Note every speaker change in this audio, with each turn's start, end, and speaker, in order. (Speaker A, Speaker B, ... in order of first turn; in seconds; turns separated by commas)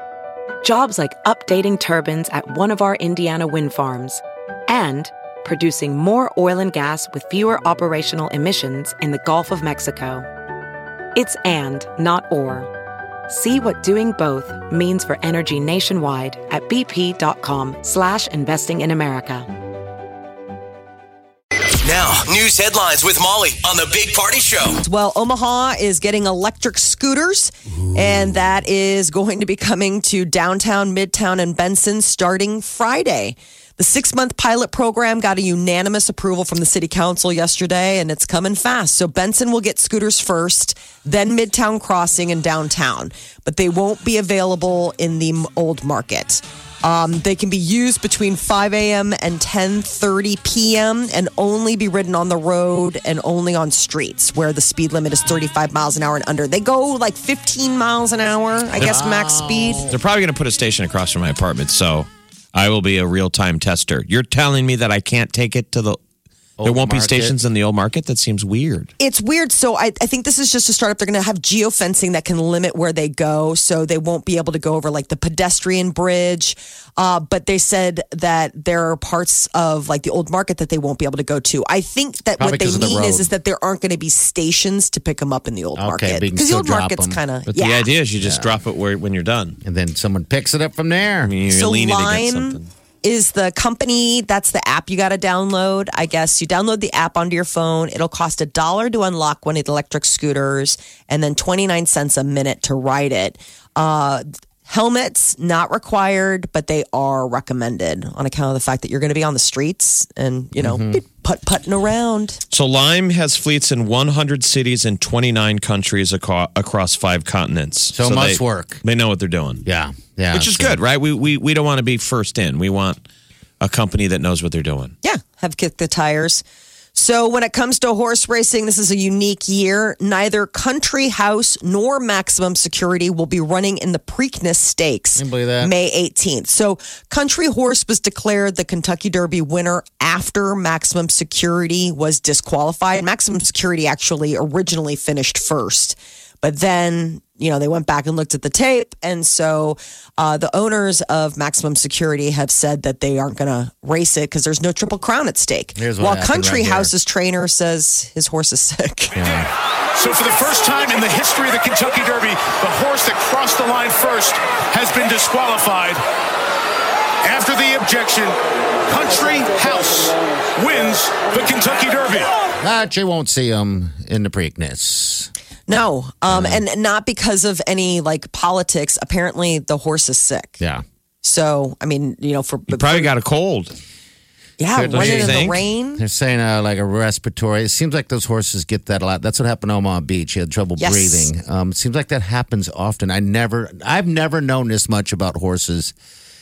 Speaker A: 0.6-10.3, Speaker A: 11.1-12.7, Speaker A: 13.3-19.5, Speaker B: 21.8-24.8, Speaker C: 24.8-59.9, Speaker D: 58.8-60.0, Speaker E: 59.9-66.0, Speaker D: 66.6-67.3, Speaker E: 66.6-68.9, Speaker C: 69.0-87.9, Speaker D: 82.4-83.3, Speaker D: 85.8-87.2, Speaker E: 87.5-89.6, Speaker D: 88.2-88.5, Speaker D: 89.6-91.3, Speaker E: 91.2-92.7, Speaker C: 91.5-112.4, Speaker D: 110.6-111.0, Speaker E: 112.5-119.6, Speaker D: 117.9-118.8, Speaker D: 119.6-120.8, Speaker E: 120.3-123.0, Speaker E: 123.6-124.9, Speaker C: 125.0-126.4, Speaker C: 126.9-159.2, Speaker D: 135.2-135.7, Speaker D: 155.8-156.9, Speaker D: 159.2-159.5, Speaker F: 159.9-166.0, Speaker F: 167.2-168.3, Speaker F: 168.9-172.3, Speaker D: 172.6-175.3, Speaker C: 175.7-180.6, Speaker D: 176.3-176.6, Speaker C: 181.2-183.1, Speaker E: 182.7-183.8, Speaker C: 184.6-186.0, Speaker D: 184.7-195.9, Speaker E: 184.9-185.6, Speaker C: 190.8-191.3